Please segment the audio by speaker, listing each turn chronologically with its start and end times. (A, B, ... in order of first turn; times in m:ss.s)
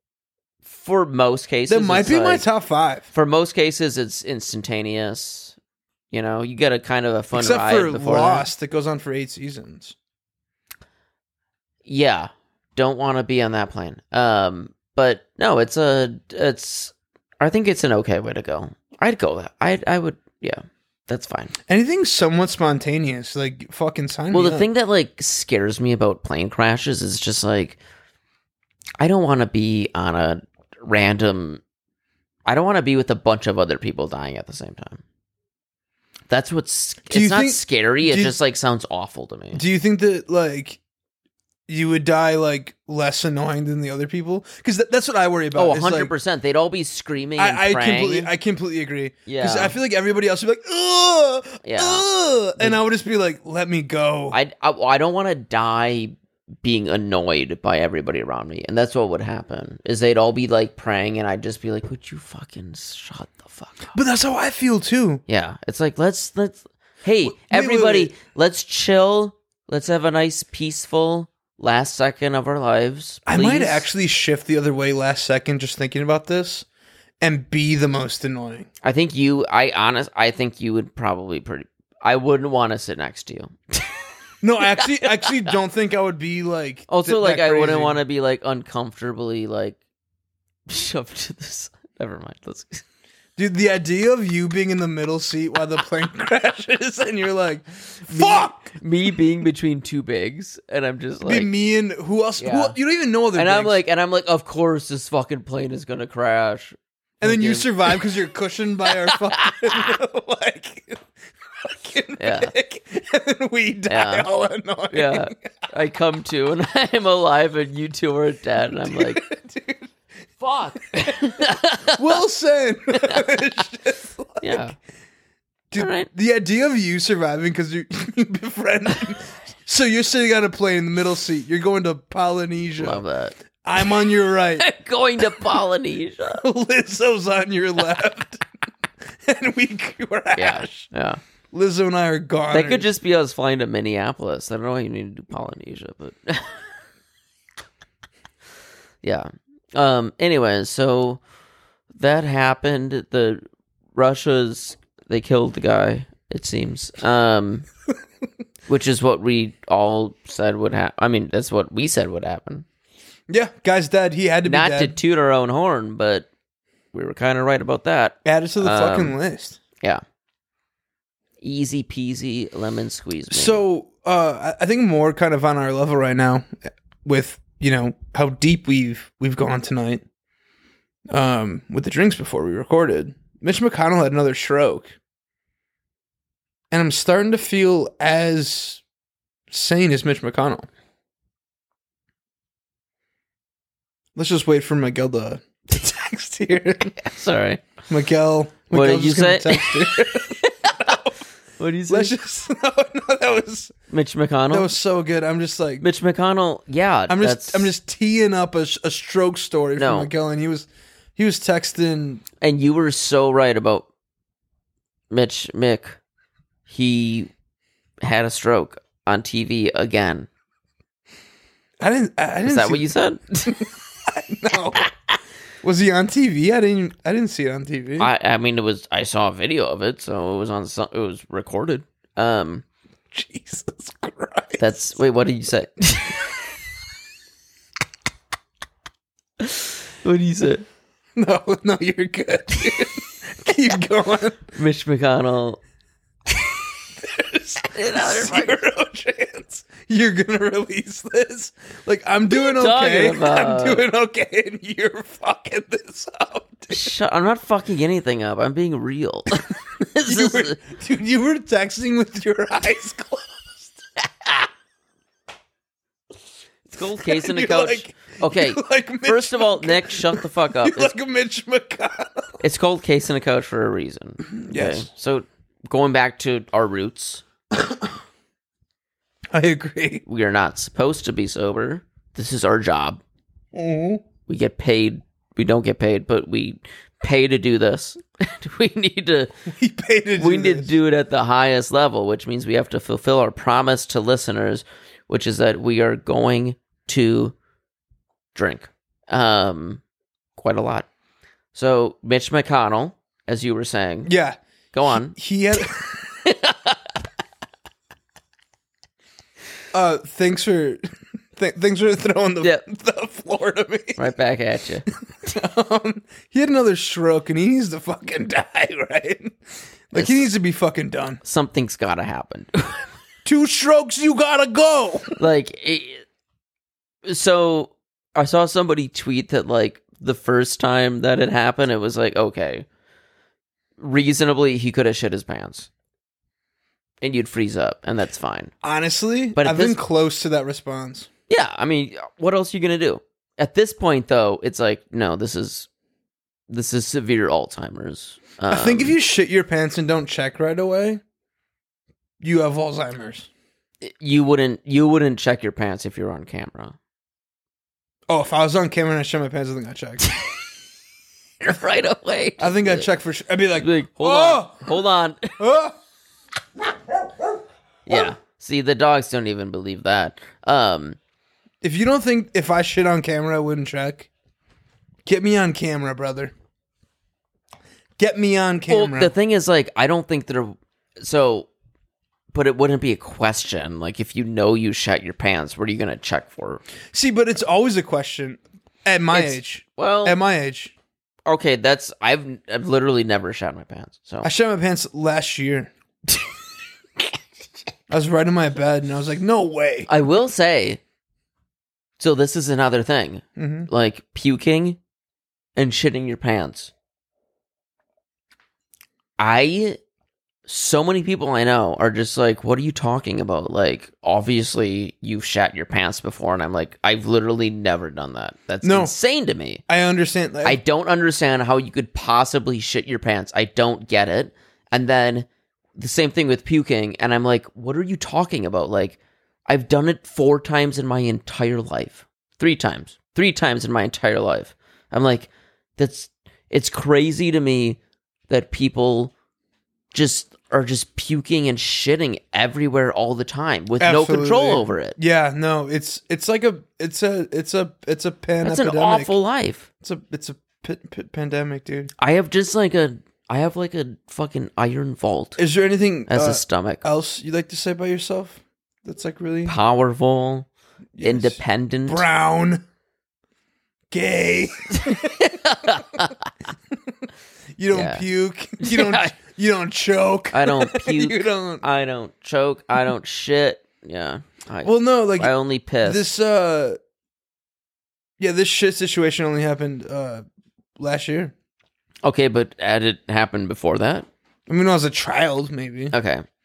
0:00.6-0:02.4 A
0:01.7-0:03.1 B
0:03.1-0:05.6 A
0:06.1-0:08.5 A
0:07.3-0:10.0 B
0:11.8-0:21.5 A
0:21.7-0:24.7 B
0:24.3-0:27.8 A
0:29.0-0:31.6 A
0:32.5-0:35.0 A
0:36.3-0:39.6 A
0:37.1-0:38.4 B
0:39.5-0:40.8 B
0:41.7-0:46.1 B
0:45.6-0:48.3 A
0:47.4-0:54.4 B
0:49.3-0:49.8 A
0:51.6-0:52.0 A
0:54.3-1:03.9 A
1:03.9-1:05.2 B
1:05.3-1:13.9 A
1:07.2-1:08.1 B
1:13.3-1:16.7 B
1:17.2-1:18.7 B
1:18.8-1:24.0 A
1:24.4-1:28.0 B
1:24.6-1:25.5 A
1:26.9-1:29.8 A
1:30.7-1:32.8 A
1:33.4-1:38.8 B
1:38.1-1:41.5 A
1:41.2-1:43.8 B
1:42.4-1:42.8 A
1:43.4-1:48.0 A
1:47.2-1:55.4 B
1:49.1-1:50.0 A
1:52.2-1:52.5 A
1:53.9-1:54.3 A
1:54.9-1:59.2 A
1:58.9-1:59.9 B
2:00.4-2:02.2 A
2:00.9-2:04.7 B
2:02.9-2:03.3 A
2:04.4-2:04.8 A
2:05.7-2:13.0 B
2:05.8-2:06.1 A
2:12.8-2:14.0 A
2:13.6-2:14.7 B
2:14.6-2:16.5 A
2:16.4-2:18.4 B
2:19.0-2:20.9 B
2:20.4-2:21.2 A
2:21.5-2:22.9 B
2:22.5-2:26.6 A
2:29.0-2:31.2 A
2:32.0-2:33.4 A
2:34.0-2:37.7 A
2:38.7-2:42.6 A
2:43.3-2:45.0 B
2:44.4-2:46.3 A
2:46.9-2:49.2 A
2:48.2-2:49.6 B
2:51.4-2:53.6 A
2:53.3-3:00.0 B
3:01.1-3:05.0 B
3:06.7-3:08.8 B
3:09.5-3:10.7 B
3:14.2-3:17.0 B
3:17.0-3:17.7 A
3:17.9-3:21.2 B
3:18.7-3:21.1 A
3:21.6-3:22.1 A
3:21.9-3:23.7 B
3:23.9-3:24.7 A
3:24.5-3:25.8 B
3:25.8-3:27.7 A
3:27.1-3:32.2 B
3:29.8-3:30.1 A
3:32.4-3:33.9 A
3:35.1-3:36.0 A
3:36.7-3:37.3 A
3:38.0-3:40.3 A
3:41.8-3:42.9 B
3:42.4-3:43.7 A
3:43.5-3:44.9 B
3:45.6-3:48.1 B
3:48.0-3:52.6 A
3:53.1-3:54.6 B
3:54.6-3:56.3 A
3:59.4-4:00.6 A
4:01.2-4:04.4 B
4:04.5-4:05.6 A
4:06.3-4:16.9 B
4:07.7-4:08.6 A
4:12.3-4:13.8 A
4:16.7-4:20.6 A
4:20.0-4:23.8 B
4:26.7-4:30.9 A
4:27.0-4:32.4 B
4:32.4-4:37.2 A
4:34.4-4:34.9 B
4:37.5-4:37.9 B
4:39.3-4:40.0 B
4:40.1-4:43.0 A
4:43.5-4:44.0 B
4:44.3-4:49.3 A
4:49.5-4:50.7 B
4:50.2-4:57.4 A
4:58.3-4:59.8 A
5:00.4-5:00.9 A
5:01.5-5:04.1 A
5:04.0-5:06.0 B
5:04.7-5:06.9 A
5:09.7-5:10.8 B
5:11.4-5:14.0 B
5:14.0-5:14.9 A
5:15.2-5:19.4 B
5:19.9-5:21.2 B
5:19.9-5:20.3 A
5:21.2-5:22.9 A
5:23.2-5:25.2 B
5:25.2-5:26.0 A
5:27.0-5:32.7 A
5:33.8-5:35.7 A
5:37.0-5:38.5 A
5:38.6-5:41.1 B
5:39.4-5:39.8 A
5:41.3-5:45.7 A
5:46.5-5:49.0 A
5:48.5-5:51.0 B
5:52.2-5:53.3 B
5:53.8-5:56.8 A
5:58.1-6:00.0 B
6:00.0-6:00.3 A
6:01.4-6:02.9 A
6:02.4-6:04.8 B
6:03.6-6:05.4 A
6:05.4-6:05.8 B
6:07.9-6:11.0 A
6:11.6-6:14.1 B
6:15.0-6:16.3 B
6:18.0-6:19.1 B
6:18.7-6:21.5 A
6:22.3-6:26.6 A
6:26.9-6:30.7 B
6:29.1-6:30.2 A
6:31.3-6:34.3 A
6:34.2-6:35.7 B
6:37.9-6:39.9 B
6:39.9-6:40.8 A
6:42.0-6:44.8 A
6:43.4-6:43.7 B
6:45.6-6:46.7 A
6:49.2-6:49.8 A
6:50.5-6:59.6 A
6:58.6-6:58.9 B
6:59.7-7:00.6 B
7:00.4-7:19.1 A
7:19.9-7:25.0 A
7:23.8-7:29.2 B
7:28.4-7:29.7 A
7:29.8-7:31.9 B
7:32.0-7:35.4 A
7:35.4-7:39.6 B
7:36.1-7:36.8 A
7:39.5-7:40.5 A
7:41.0-7:42.6 B
7:41.0-7:42.0 A
7:43.9-7:46.1 B
7:44.7-7:46.3 A
7:47.6-7:51.6 B
7:47.7-7:48.1 A
7:48.6-7:49.1 A
7:50.3-7:56.0 A
7:54.6-7:56.8 B
7:58.2-8:00.2 B
8:00.8-8:01.3 B
8:02.0-8:04.1 A
8:04.5-8:05.9 B
8:05.9-8:06.2 A